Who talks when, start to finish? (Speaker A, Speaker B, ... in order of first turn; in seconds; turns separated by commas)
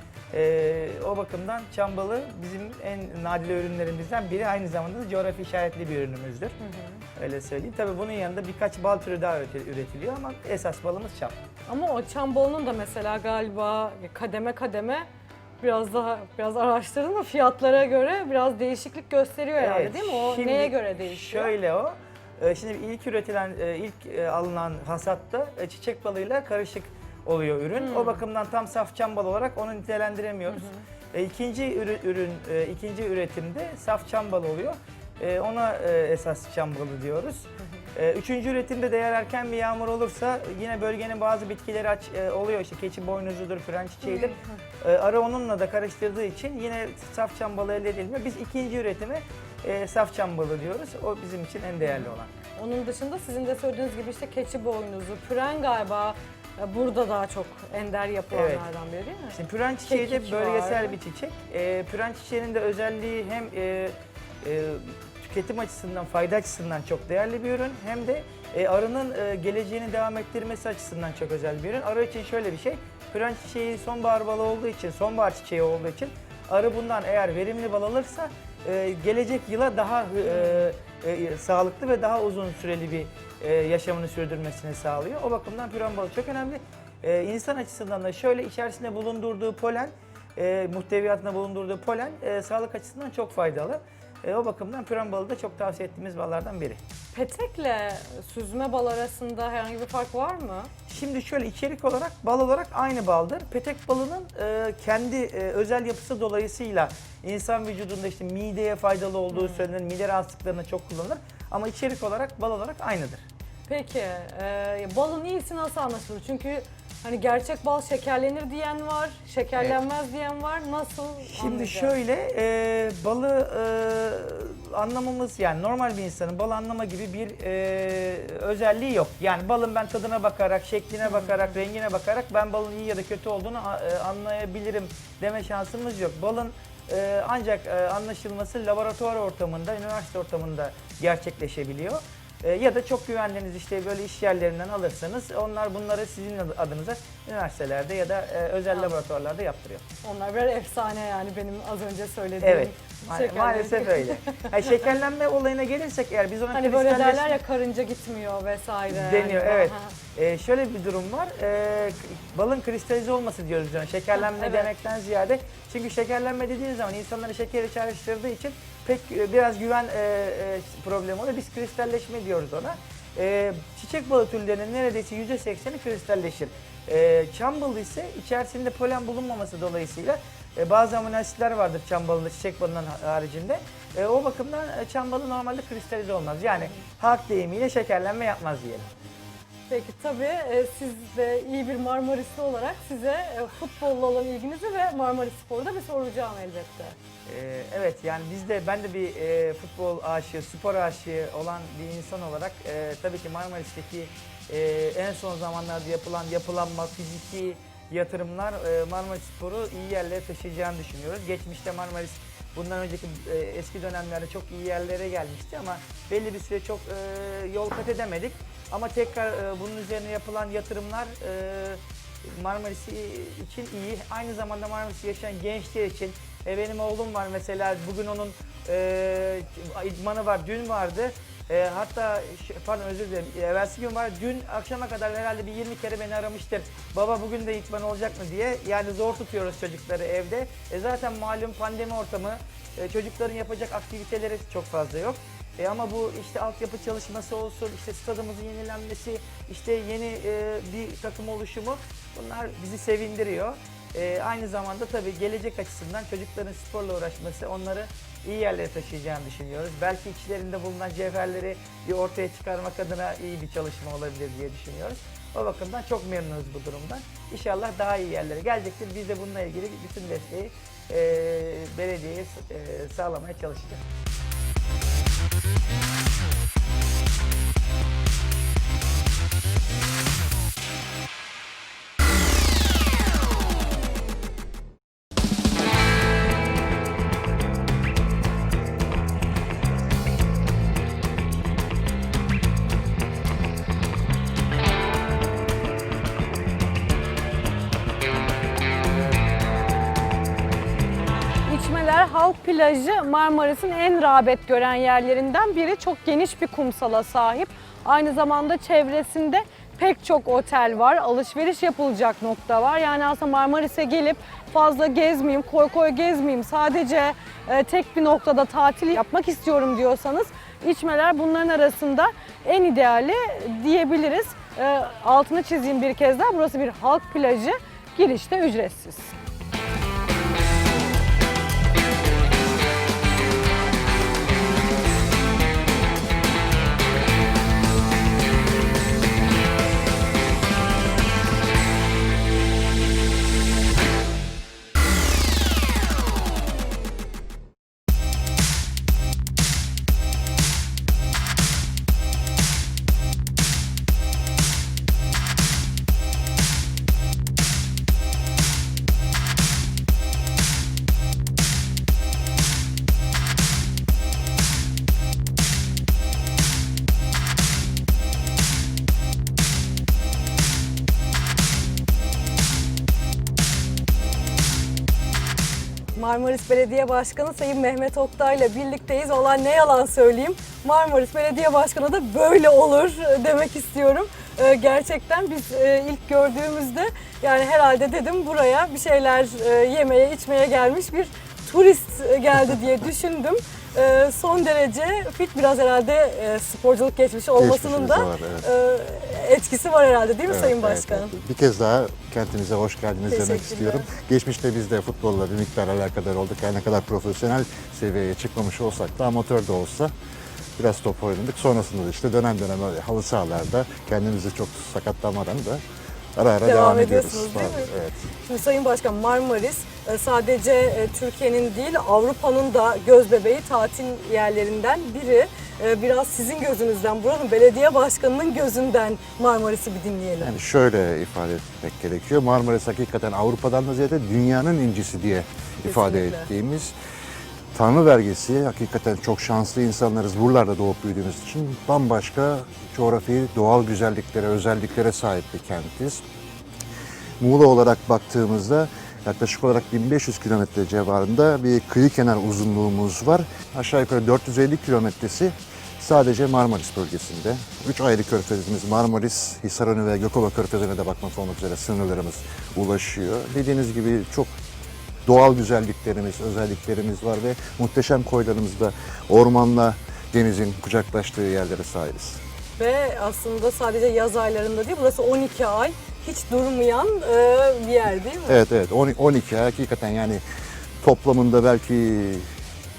Speaker A: 0.3-6.5, Speaker B: 6.6-7.0, Speaker A: 7.2-11.3, Speaker B: 11.7-15.1, Speaker B: 15.6-21.5, Speaker A: 19.6-52.3, Speaker B: 27.7-28.2, Speaker B: 30.5-30.8, Speaker B: 44.0-44.4, Speaker B: 51.8-61.0, Speaker A: 58.3-58.7, Speaker A: 59.3-96.8, Speaker B: 80.2-80.7, Speaker B: 97.1-100.7, Speaker A: 100.9-113.2, Speaker B: 109.3-109.6, Speaker B: 113.7-122.0, Speaker A: 121.2-149.8, Speaker B: 131.0-131.5, Speaker B: 150.0-154.5, Speaker A: 152.4-157.4, Speaker B: 156.5-159.9, Speaker A: 158.9-188.8, Speaker B: 164.1-164.7, Speaker B: 189.7-196.9, Speaker A: 197.3-273.8, Speaker B: 301.5-329.1, Speaker B: 375.9-401.1, Speaker C: 397.4-398.4, Speaker C: 400.3-409.9, Speaker B: 403.1-403.9, Speaker C: 410.6-415.6, Speaker C: 416.1-418.0, Speaker B: 416.4-417.7, Speaker B: 418.2-430.3, Speaker C: 430.2-436.7, Speaker B: 435.6-436.3, Speaker C: 437.5-446.0, Speaker C: 447.2-464.3, Speaker C: 465.1-472.2, Speaker B: 472.6-478.4, Speaker C: 478.2-480.2, Speaker C: 480.8-482.3